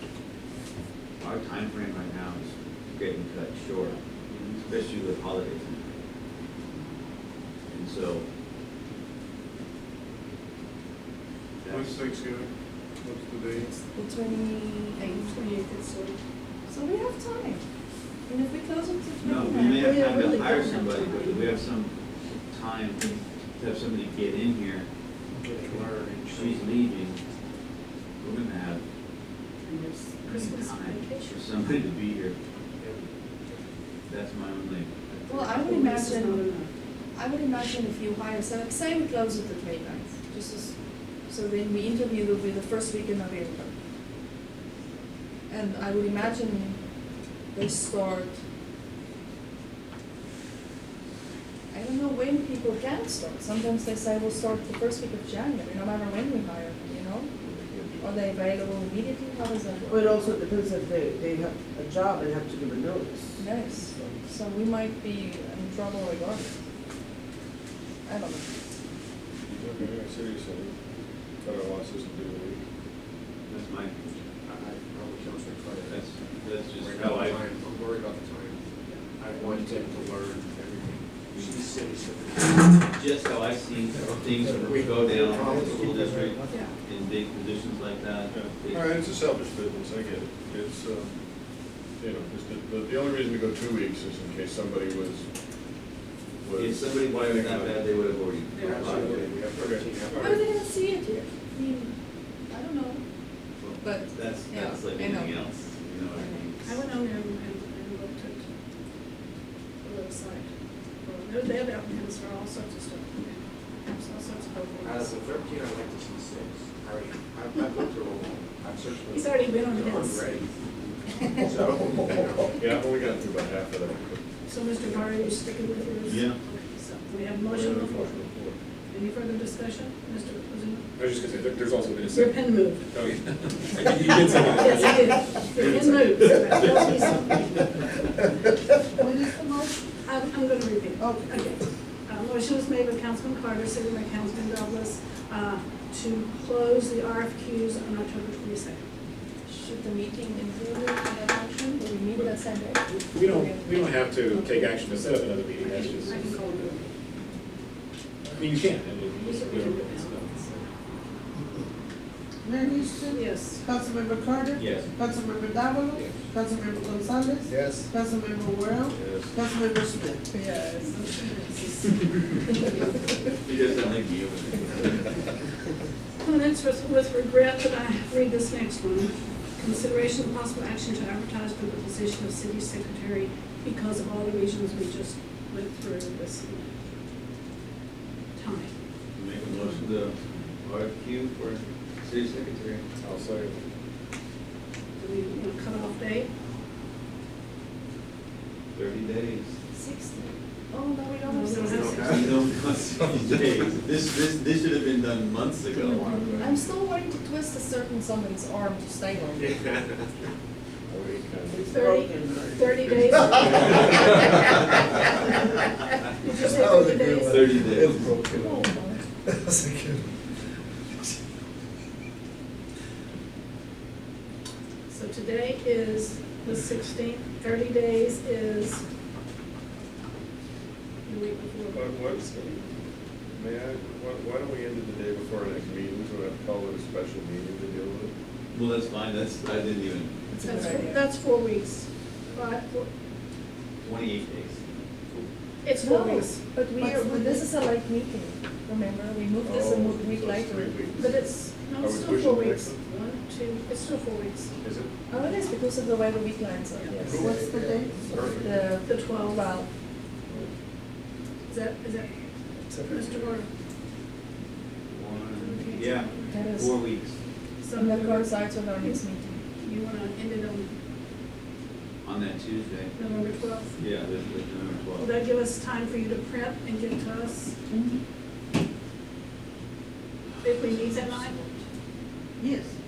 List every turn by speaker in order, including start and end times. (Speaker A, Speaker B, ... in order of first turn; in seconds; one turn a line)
Speaker A: 1.2-6.0
Speaker A: 7.7-8.3
Speaker A: 11.6-12.2
Speaker B: 11.7-12.5
Speaker B: 13.0-13.7
Speaker C: 13.9-15.3
Speaker D: 15.0-16.2
Speaker C: 16.7-17.6
Speaker C: 18.3-19.9
Speaker A: 19.2-24.9
Speaker D: 19.7-21.5
Speaker E: 25.4-26.8
Speaker A: 26.3-27.2
Speaker A: 28.2-28.8
Speaker D: 29.6-31.3
Speaker A: 30.2-32.4
Speaker E: 32.8-33.5
Speaker A: 34.1-35.5
Speaker C: 35.3-36.5
Speaker D: 35.6-36.7
Speaker C: 37.1-40.8
Speaker C: 41.3-43.7
Speaker C: 45.5-46.8
Speaker C: 47.5-48.4
Speaker C: 51.7-57.3
Speaker B: 57.4-58.1
Speaker C: 58.0-60.1
Speaker F: 59.9-63.4
Speaker C: 63.4-66.5
Speaker C: 68.0-68.5
Speaker B: 69.5-70.7
Speaker B: 71.4-72.6
Speaker A: 73.5-74.1
Speaker E: 74.4-76.0
Speaker A: 75.8-77.4
Speaker E: 76.7-78.6
Speaker E: 79.2-82.9
Speaker C: 79.4-79.7
Speaker A: 81.3-81.6
Speaker A: 82.9-89.0
Speaker E: 84.0-86.2
Speaker B: 88.3-91.1
Speaker B: 92.0-95.3
Speaker B: 96.4-97.8
Speaker A: 96.5-99.4
Speaker E: 98.6-100.4
Speaker B: 99.0-100.2
Speaker C: 100.1-101.9
Speaker C: 102.5-103.0
Speaker A: 103.6-106.8
Speaker C: 103.8-105.3
Speaker D: 106.6-108.4
Speaker D: 109.8-110.5
Speaker D: 111.0-115.1
Speaker E: 114.8-120.5
Speaker D: 119.1-120.4
Speaker E: 121.2-122.6
Speaker B: 122.4-124.2
Speaker D: 124.5-128.2
Speaker A: 126.0-126.4
Speaker B: 127.5-128.6
Speaker D: 128.9-130.8
Speaker G: 131.0-132.4
Speaker D: 132.0-132.9
Speaker G: 132.9-135.4
Speaker D: 133.9-137.7
Speaker F: 138.9-139.8
Speaker D: 140.0-148.8
Speaker F: 141.0-141.5
Speaker C: 149.5-154.9
Speaker G: 153.1-156.3
Speaker D: 155.6-156.9
Speaker G: 158.3-160.4
Speaker D: 159.2-160.6
Speaker F: 162.4-170.2
Speaker D: 163.1-163.6
Speaker A: 164.5-164.9
Speaker G: 167.5-167.9
Speaker B: 168.9-169.3
Speaker C: 170.4-170.7
Speaker D: 170.4-173.0
Speaker A: 173.4-175.1
Speaker D: 176.2-186.7
Speaker D: 188.3-188.7
Speaker A: 189.1-192.8
Speaker B: 193.0-193.6
Speaker D: 195.0-196.3
Speaker A: 198.7-199.6
Speaker C: 199.7-202.2
Speaker D: 201.2-202.0
Speaker E: 201.6-202.4
Speaker A: 202.0-206.3
Speaker D: 205.9-206.5
Speaker C: 206.4-209.6
Speaker B: 210.9-211.8
Speaker F: 211.5-213.4
Speaker D: 211.7-214.3
Speaker A: 213.4-213.8
Speaker D: 216.2-217.6
Speaker A: 216.4-218.6
Speaker C: 218.2-219.0
Speaker A: 219.4-219.9
Speaker D: 224.9-228.8
Speaker D: 231.1-232.7
Speaker B: 231.7-232.5
Speaker B: 233.3-238.1
Speaker A: 238.5-240.2
Speaker C: 240.3-241.1
Speaker D: 240.4-242.9
Speaker A: 243.8-244.6
Speaker D: 245.6-246.4
Speaker C: 245.7-250.9
Speaker F: 246.8-247.3
Speaker B: 249.4-251.2
Speaker D: 250.9-254.6
Speaker B: 251.8-252.8
Speaker B: 254.6-254.9
Speaker C: 255.1-257.4
Speaker F: 257.1-258.0
Speaker A: 257.2-257.9
Speaker E: 258.1-258.5
Speaker C: 258.2-259.7
Speaker D: 258.8-259.5
Speaker D: 261.5-262.1
Speaker D: 262.8-263.5
Speaker A: 264.9-267.2
Speaker D: 265.4-266.4
Speaker C: 266.3-266.7
Speaker D: 267.6-269.0
Speaker C: 267.7-269.4
Speaker D: 269.6-270.7
Speaker A: 272.0-273.0
Speaker D: 272.9-273.7
Speaker A: 273.8-275.2
Speaker D: 275.0-277.5
Speaker F: 277.7-277.9
Speaker D: 280.4-281.4
Speaker C: 280.7-281.6
Speaker F: 282.4-282.7